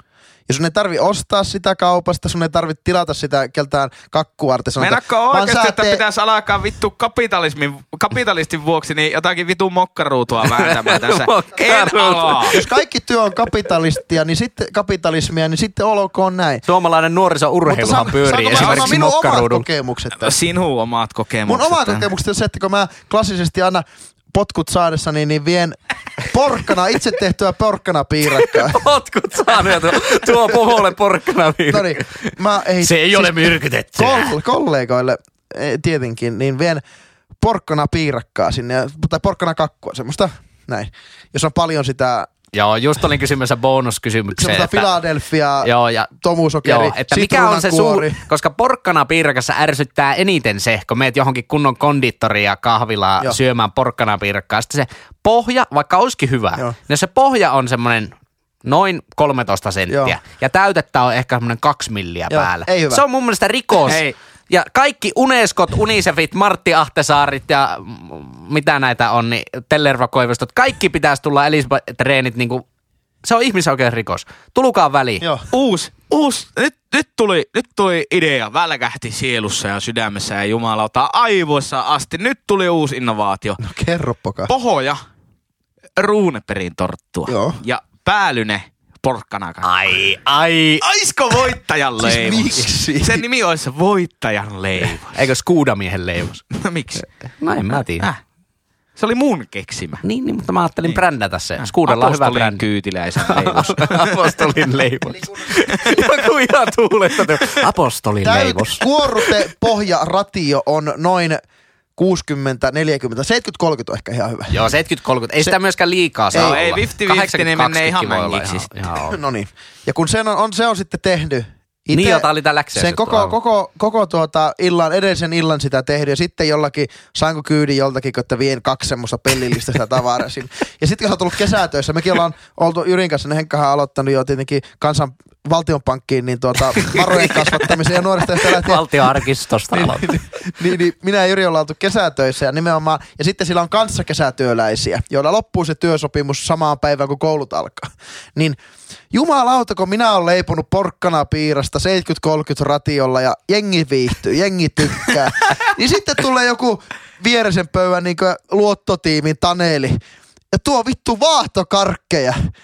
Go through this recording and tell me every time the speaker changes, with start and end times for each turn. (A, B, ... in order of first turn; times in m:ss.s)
0:00.5-0:06.0 A
0:04.8-0:12.6 B
0:10.5-0:12.6 C
0:12.5-0:16.6 A
0:16.7-0:19.6 C
0:17.6-0:20.4 A
0:18.5-0:19.0 B
0:20.2-0:22.1 B
0:21.4-0:28.8 A
0:28.3-0:34.3 C
0:31.7-0:36.8 A
0:37.4-0:42.3 A
0:42.5-0:44.9 C
0:44.4-0:48.2 A
0:45.6-0:46.1 C
0:46.6-1:12.6 C
0:59.9-1:00.2 A
1:02.3-1:03.0 A
1:03.9-1:04.1 B
1:13.2-1:15.2 C
1:15.2-1:15.4 A
1:15.5-1:23.6 B
1:23.6-1:24.5 A
1:24.5-1:25.0 B
1:26.0-1:29.7 B
1:27.3-1:27.6 A
1:29.6-1:30.8 C
1:30.8-1:35.2 B
1:32.0-1:33.2 A
1:35.1-1:36.4 C
1:36.5-1:37.0 B
1:37.4-1:38.1 C
1:39.0-1:40.0 B
1:40.0-1:42.6 C
1:41.6-1:44.5 B
1:43.3-1:49.3 C
1:45.5-1:46.3 B
1:48.2-1:51.4 A
1:52.0-1:54.7 A
1:54.5-1:59.2 C
1:56.3-1:56.6 A
1:56.3-1:58.7 B
1:59.0-2:19.2 A
2:01.9-2:03.3 C
2:16.8-2:17.7 C
2:18.3-2:20.2 C
2:19.7-2:28.6 A
2:29.1-2:40.0 A
2:40.5-2:42.5 A